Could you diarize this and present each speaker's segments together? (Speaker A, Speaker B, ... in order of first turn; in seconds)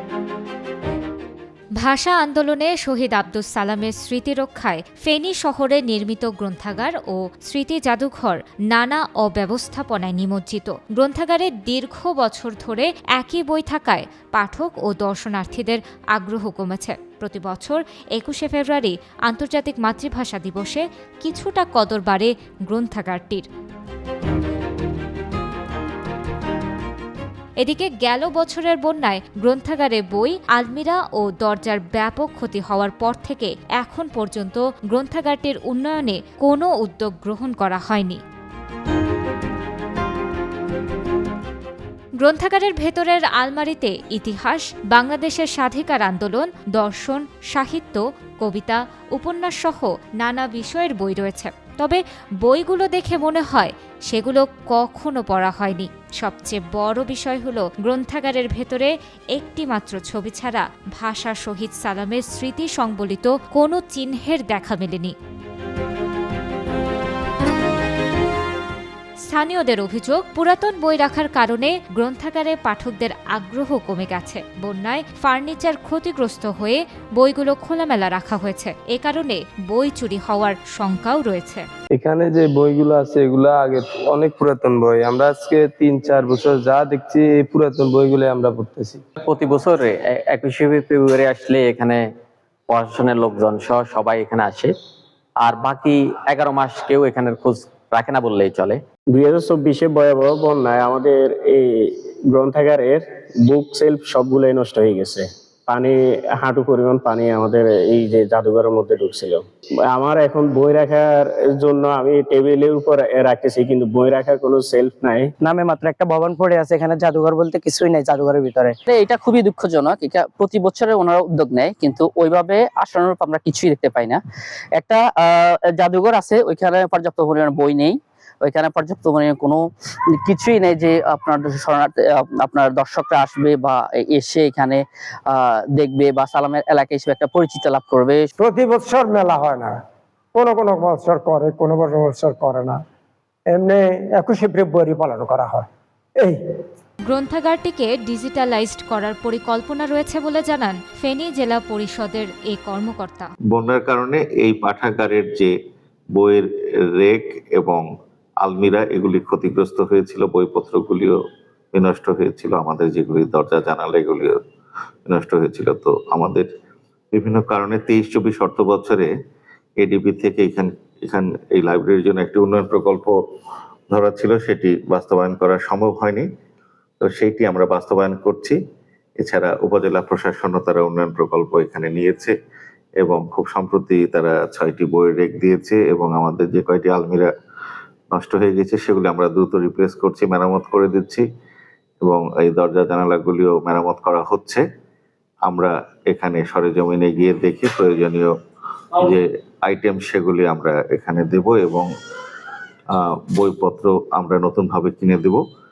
Speaker A: 1.8-23.5, 27.6-38.2, 42.2-65.1, 69.3-81.7, 147.1-153.3
Speaker B: 81.9-89.0
Speaker C: 89.2-92.0, 92.7-94.7, 95.4-98.8
Speaker D: 99.1-115.3
Speaker E: 115.4-118.8
Speaker F: 118.9-124.2, 124.8-129.6, 130.2-138.3
Speaker G: 138.4-139.8, 140.3-142.8, 143.5-146.6
Speaker H: 153.5-155.5, 156.1-157.8, 158.4-161.2, 161.7-164.4, 165.1-166.5, 167.1-169.1, 169.8-173.2, 173.9-176.3, 177.0-178.6, 179.2-182.3, 183.0-187.3, 188.1-191.2, 192.0-194.6, 195.4-198.3, 199.0-201.9, 202.9-205.4